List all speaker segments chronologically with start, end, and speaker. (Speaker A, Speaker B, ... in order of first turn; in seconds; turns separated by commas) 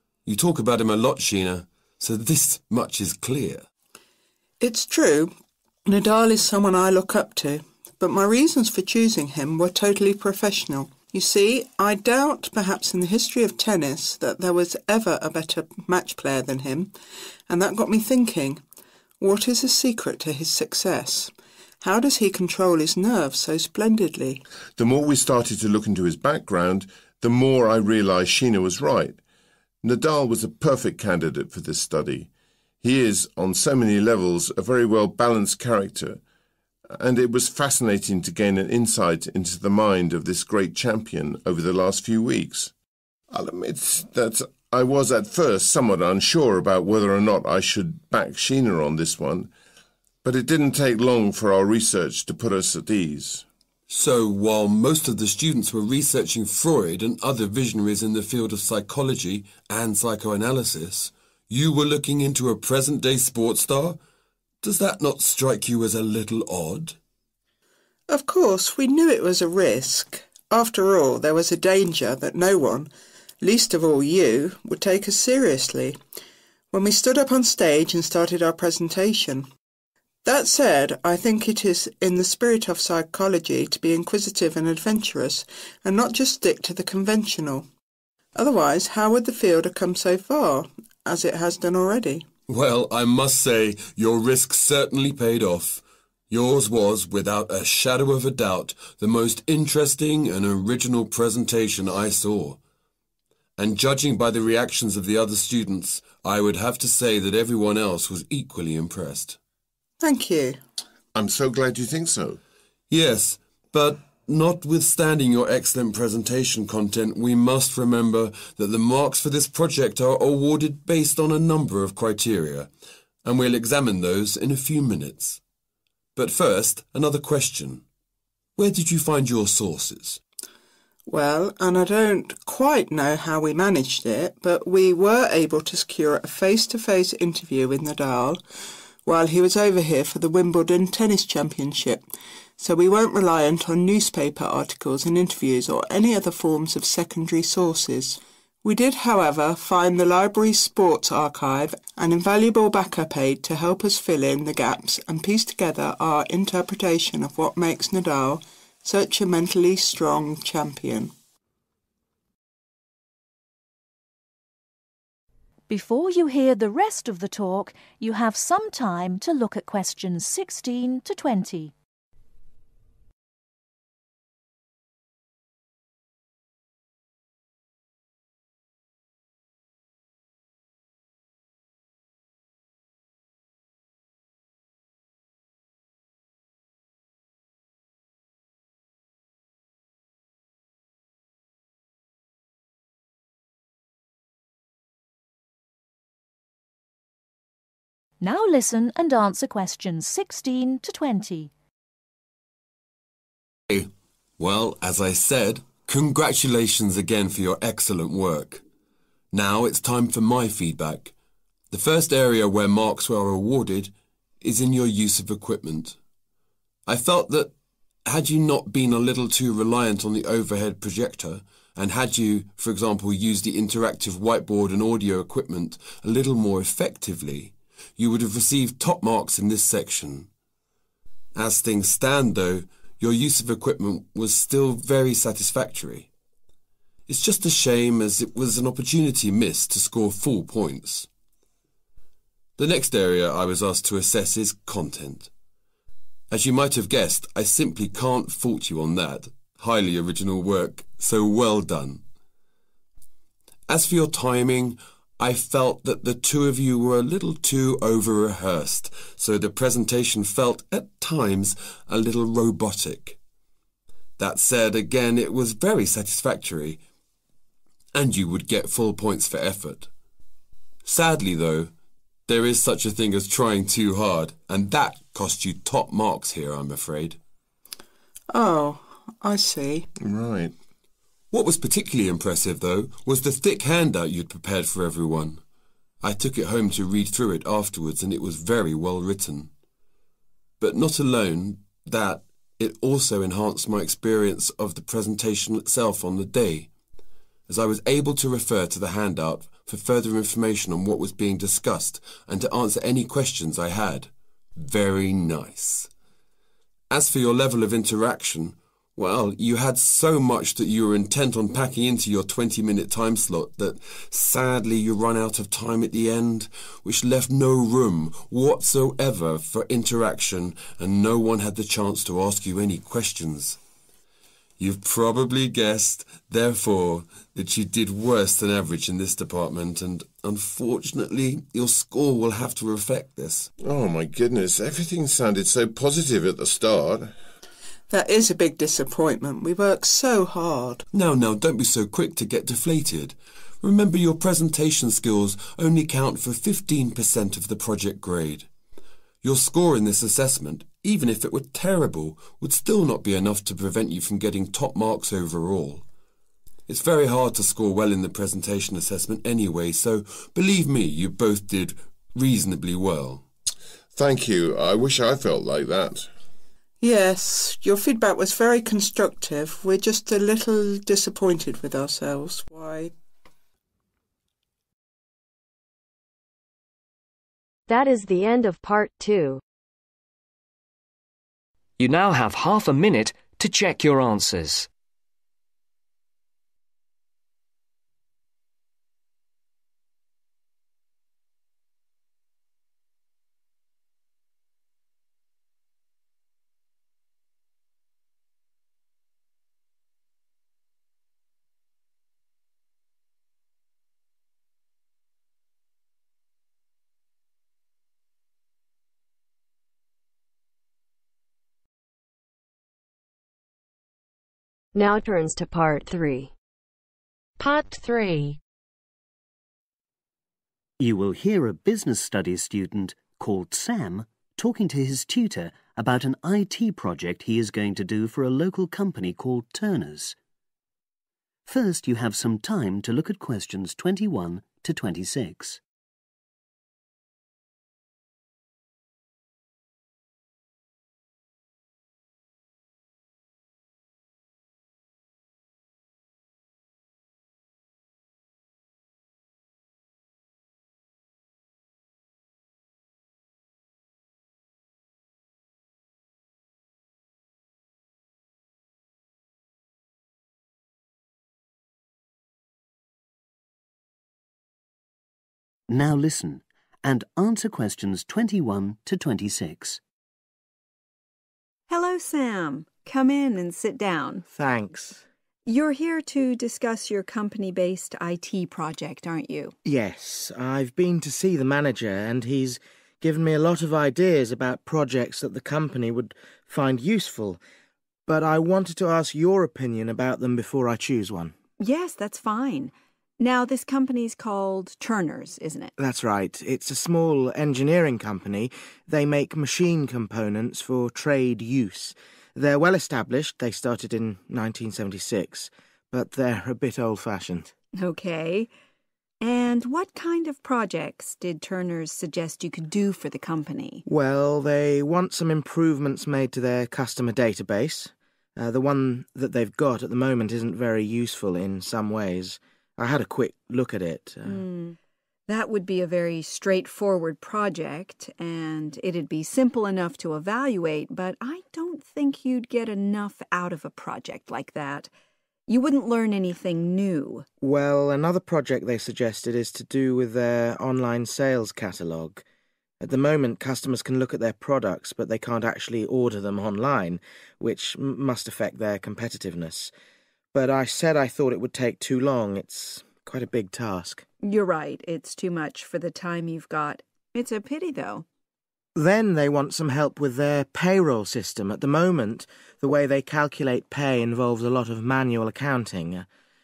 Speaker A: 0.2-3.6, Speaker B: 4.6-5.3, Speaker B: 5.8-16.9, Speaker B: 17.5-18.6, Speaker B: 19.2-24.4, Speaker C: 24.8-29.2, Speaker C: 29.8-32.3, Speaker C: 32.8-36.2, Speaker C: 36.9-42.7, Speaker C: 43.3-49.5, Speaker C: 50.2-53.4, Speaker A: 53.9-64.0, Speaker A: 64.6-67.0, Speaker B: 68.1-76.0, Speaker B: 76.7-79.5, Speaker B: 80.2-87.7, Speaker B: 88.3-92.2, Speaker A: 92.5-102.6, Speaker A: 103.6-109.4, Speaker B: 110.0-110.6, Speaker C: 111.1-112.4, Speaker A: 112.9-122.7, Speaker A: 123.2-125.4, Speaker A: 126.2-127.8, Speaker A: 128.6-130.2, Speaker B: 131.1-138.4, Speaker B: 139.0-142.0, Speaker B: 142.6-161.1, Speaker D: 165.7-171.7, Speaker D: 198.2-201.5, Speaker A: 203.7-208.6, Speaker A: 209.3-211.1, Speaker A: 211.7-215.9, Speaker A: 216.8-217.5, Speaker A: 218.1-230.3, Speaker A: 231.3-236.1, Speaker A: 237.1-241.1, Speaker A: 242.6-245.3, Speaker A: 246.3-252.0, Speaker A: 253.7-263.2, Speaker A: 264.2-266.8, Speaker A: 267.9-269.9, Speaker A: 270.8-271.7, Speaker A: 272.3-277.2, Speaker B: 278.3-279.9, Speaker C: 280.0-280.5, Speaker A: 281.3-285.4, Speaker A: 286.0-289.5, Speaker A: 290.6-296.7, Speaker A: 297.5-305.9, Speaker A: 306.9-323.6, Speaker A: 324.6-333.5, Speaker C: 333.6-337.1, Speaker B: 337.9-340.8, Speaker A: 340.9-348.4, Speaker A: 349.2-355.8, Speaker A: 356.7-363.2, Speaker C: 363.9-366.1, Speaker B: 366.8-372.9, Speaker E: 377.7-379.4, Speaker F: 381.8-384.7, Speaker E: 414.7-416.3, Speaker E: 417.4-418.4, Speaker G: 420.8-430.2, Speaker G: 431.4-435.6, Speaker G: 465.7-469.8, Speaker H: 471.7-474.2, Speaker I: 474.3-475.0, Speaker H: 475.4-479.5, Speaker I: 479.6-487.4, Speaker I: 488.1-491.3, Speaker H: 491.6-495.7, Speaker I: 495.8-507.5, Speaker H: 507.8-508.5, Speaker H: 509.2-513.8, Speaker I: 513.9-524.4, Speaker H: 524.2-524.8, Speaker H: 525.3-534.9, Speaker H: 535.5-537.2, Speaker I: 537.4-542.2, Speaker I: 542.8-549.7, Speaker I: 550.3-554.0, Speaker H: 554.2-558.0, Speaker I: 558.8-566.0